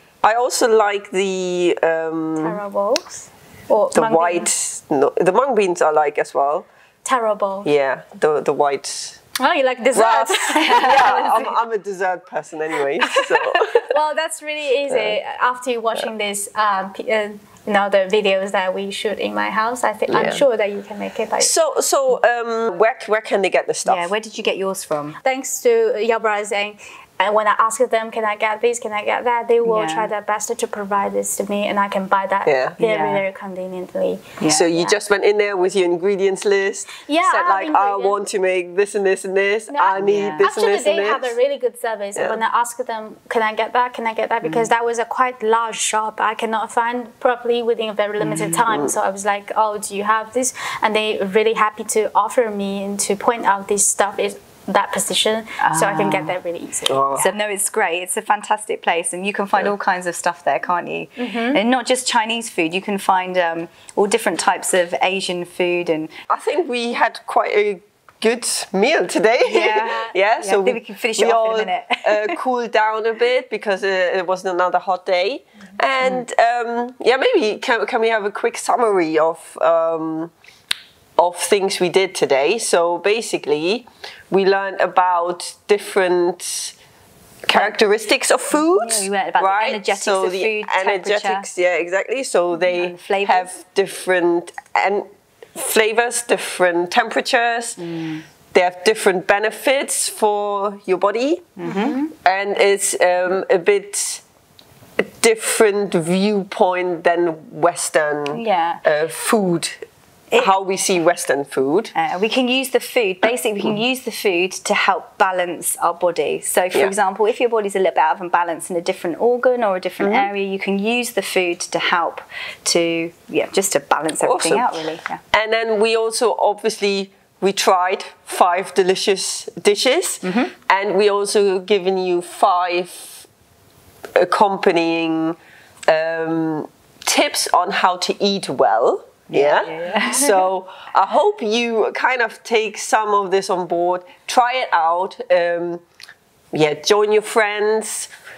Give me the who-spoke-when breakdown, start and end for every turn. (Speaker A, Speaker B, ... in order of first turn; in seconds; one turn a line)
Speaker A: 0.2-2.6
Speaker B: 2.4-4.5
Speaker A: 3.9-6.7
Speaker B: 7.0-7.7
Speaker A: 7.6-9.2
Speaker B: 9.4-11.5
Speaker A: 9.9-13.9
Speaker C: 10.5-11.5
Speaker B: 13.2-21.5
Speaker A: 14.9-15.2
Speaker A: 20.1-20.4
Speaker A: 21.4-24.1
Speaker C: 23.9-25.2
Speaker B: 25.2-35.0
Speaker C: 29.6-30.1
Speaker A: 32.5-32.8
Speaker C: 32.8-33.2
Speaker C: 34.4-34.7
Speaker A: 34.5-41.4
Speaker B: 37.0-38.2
Speaker B: 39.7-57.3
Speaker C: 40.0-40.5
Speaker C: 44.4-44.7
Speaker C: 48.2-48.7
Speaker C: 55.6-56.3
Speaker A: 56.9-57.3
Speaker C: 57.2-66.1
Speaker B: 61.2-61.6
Speaker A: 66.3-80.3
Speaker C: 69.4-72.4
Speaker B: 69.6-70.1
Speaker A: 81.2-86.7
Speaker A: 87.4-97.8
Speaker C: 87.5-87.8
Speaker C: 88.5-91.5
Speaker C: 92.7-93.5
Speaker C: 97.8-98.2
Speaker A: 98.5-101.6
Speaker C: 101.6-102.0
Speaker B: 101.6-102.1
Speaker A: 102.2-104.2
Speaker A: 105.0-109.8
Speaker C: 108.3-108.8
Speaker A: 110.3-111.9
Speaker C: 111.9-125.2
Speaker A: 120.0-120.3
Speaker A: 124.2-124.8
Speaker A: 125.3-133.2
Speaker C: 130.2-130.5
Speaker A: 134.2-145.8
Speaker C: 139.3-140.4
Speaker A: 146.5-148.1